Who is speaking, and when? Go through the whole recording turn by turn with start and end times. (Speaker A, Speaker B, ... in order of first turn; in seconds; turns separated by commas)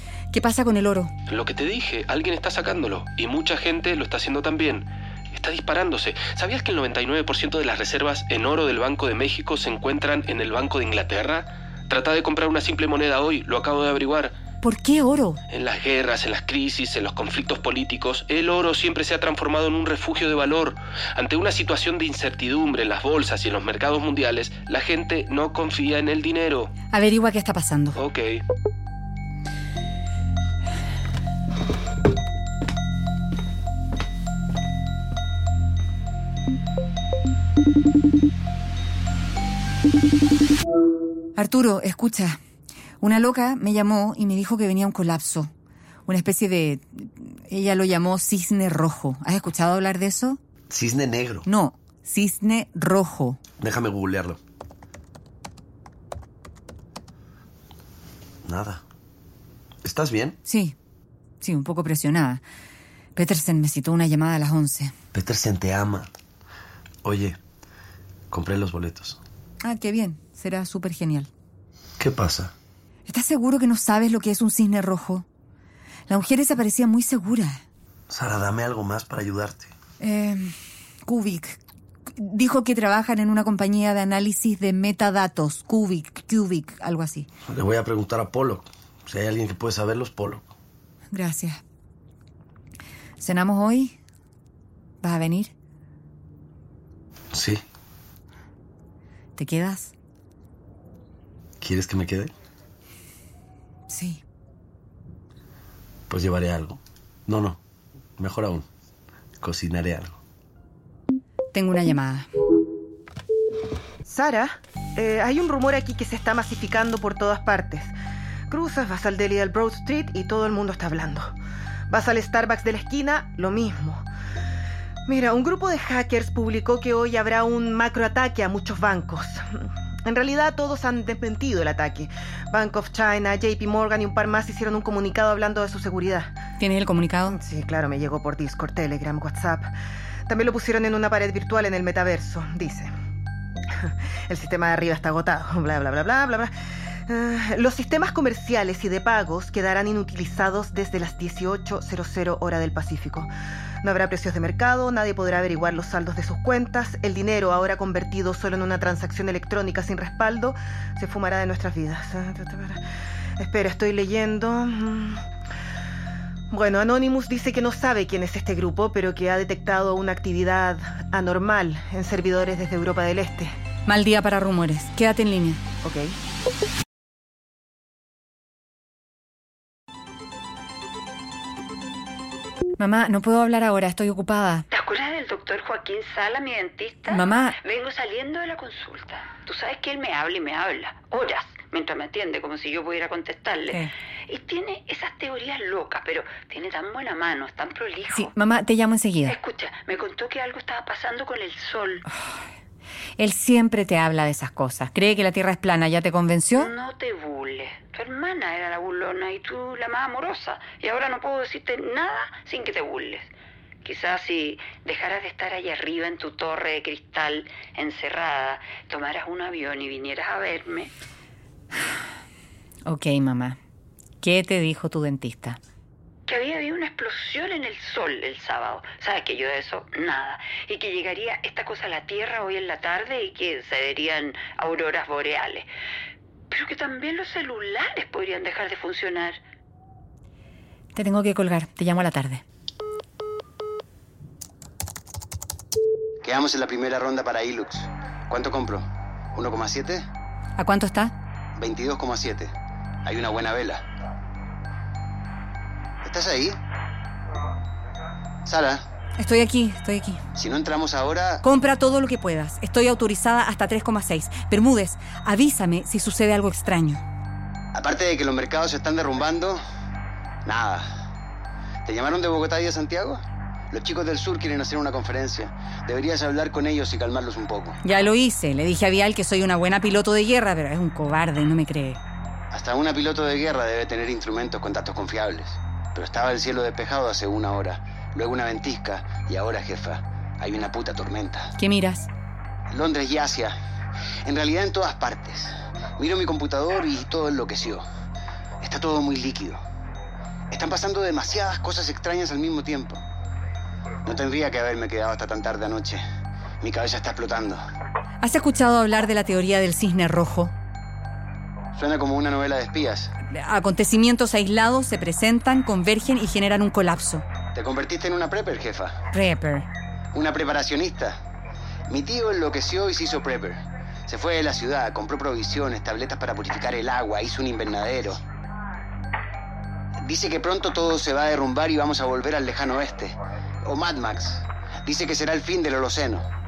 Speaker A: 0.3-1.1, Speaker B: 1.3-14.3, Speaker A: 14.6-15.4, Speaker B: 15.5-26.7, Speaker A: 26.9-28.0, Speaker B: 28.0-28.4, Speaker A: 41.4-42.4, Speaker A: 43.0-45.5, Speaker A: 46.1-50.4, Speaker C: 50.7-51.5, Speaker A: 51.5-53.4, Speaker C: 53.6-54.4, Speaker C: 58.5-58.8, Speaker C: 59.8-60.4, Speaker A: 60.5-60.8, Speaker A: 61.4-62.4, Speaker A: 63.2-64.9, Speaker C: 65.1-66.1, Speaker C: 67.0-67.4, Speaker C: 68.3-69.2, Speaker A: 69.6-71.3, Speaker C: 72.0-72.5, Speaker A: 73.1-75.3, Speaker A: 76.1-77.6, Speaker C: 78.1-79.7, Speaker A: 80.0-81.6, Speaker A: 82.2-87.3, Speaker C: 87.5-90.5, Speaker A: 91.1-91.6, Speaker A: 93.2-94.0, Speaker A: 95.0-95.5, Speaker C: 97.3-97.6, Speaker A: 99.4-99.9, Speaker C: 101.6-102.3, Speaker A: 103.9-104.2, Speaker C: 106.1-107.6, Speaker C: 108.2-108.7, Speaker C: 109.4-110.2, Speaker A: 111.5-112.3, Speaker D: 114.1-117.9, Speaker D: 118.5-121.3, Speaker D: 121.9-124.0, Speaker D: 125.1-136.3, Speaker A: 136.6-137.4, Speaker D: 137.3-139.7, Speaker D: 140.3-142.9, Speaker D: 143.8-146.5, Speaker D: 147.1-153.3, Speaker D: 153.8-162.8, Speaker D: 163.4-165.2, Speaker D: 166.5-173.5, Speaker A: 173.9-175.6, Speaker D: 175.8-176.2, Speaker A: 182.8-184.7, Speaker E: 184.7-198.3, Speaker A: 187.1-187.6, Speaker A: 198.1-199.3, Speaker E: 199.3-202.1, Speaker A: 202.1-202.4, Speaker A: 203.2-206.7, Speaker E: 206.5-213.3, Speaker E: 213.8-220.9, Speaker A: 222.9-223.6, Speaker A: 224.2-225.6, Speaker E: 226.3-235.7, Speaker E: 236.5-239.4, Speaker A: 240.9-242.4, Speaker F: 246.2-250.1, Speaker A: 250.6-251.1, Speaker F: 251.6-252.5, Speaker F: 253.1-253.8, Speaker F: 256.0-256.6, Speaker F: 258.4-258.8, Speaker A: 259.2-260.2, Speaker F: 260.4-261.4, Speaker A: 261.4-267.0, Speaker F: 267.8-269.6, Speaker F: 270.4-270.9, Speaker F: 271.9-277.8, Speaker A: 277.8-282.0, Speaker F: 282.5-291.5, Speaker A: 291.6-292.1, Speaker F: 292.7-293.5, Speaker F: 294.3-297.8, Speaker F: 298.6-299.6, Speaker F: 300.5-303.0, Speaker F: 304.1-306.0, Speaker F: 306.6-307.6, Speaker A: 308.2-310.5, Speaker F: 311.8-313.1, Speaker A: 313.3-317.2, Speaker F: 317.5-319.0, Speaker A: 319.1-319.6, Speaker F: 320.1-321.2, Speaker F: 321.9-328.2, Speaker F: 330.0-336.2